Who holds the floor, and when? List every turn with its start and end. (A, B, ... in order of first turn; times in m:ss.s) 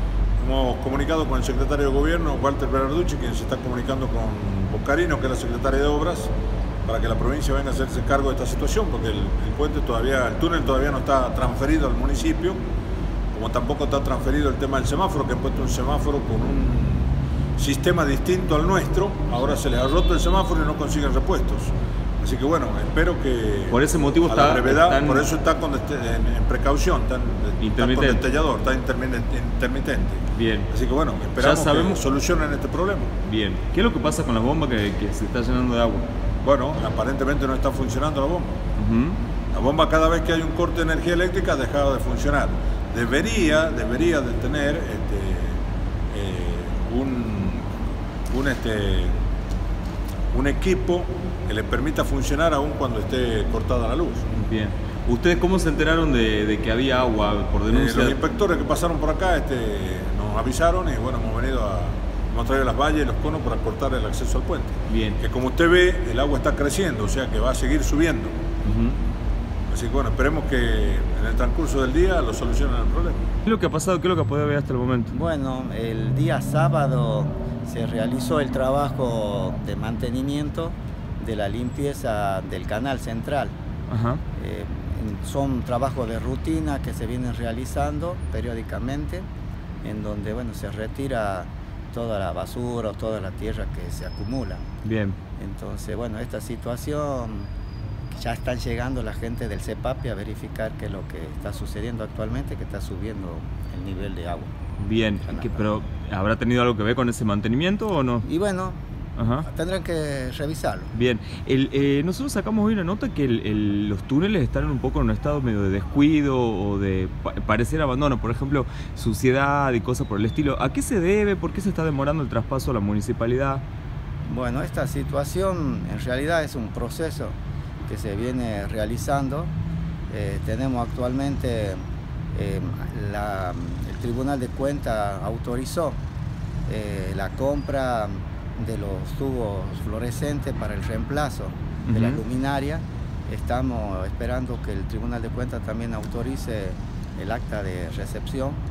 0:00.4-0:06.3 A
0:06.9-0:12.6 A
0:13.3-0:33.1 A
0:23.7-0:25.3 B
0:27.6-0:28.2 B
0:30.3-0:30.7 B
0:31.4-0:32.0 B
0:33.2-0:36.1 B
0:36.4-0:38.6 A
0:38.8-0:39.2 B
0:39.5-0:45.6 A
0:46.1-0:47.7 A
0:48.3-0:49.2 A
0:50.3-0:54.3 A
0:54.3-0:58.2 B
0:57.7-1:08.4 A
1:04.9-1:05.2 B
1:08.6-1:09.0 B
1:09.7-1:13.2 A
1:13.5-1:15.1 B
1:15.1-1:23.6 C
1:23.9-1:24.2 B
1:24.3-1:29.3 C
1:29.8-1:34.7 C
1:34.8-1:35.2 B
1:35.4-1:37.5 C
1:38.1-1:44.5 C
1:44.8-1:48.2 B
1:45.2-1:45.8 C
1:48.2-1:48.8 C
1:49.2-1:49.5 B
1:49.4-1:50.9 C
1:50.9-2:03.6 B
2:04.2-2:09.5 C
2:10.1-2:16.0 C
2:16.7-2:28.6 C
2:21.9-2:22.2 B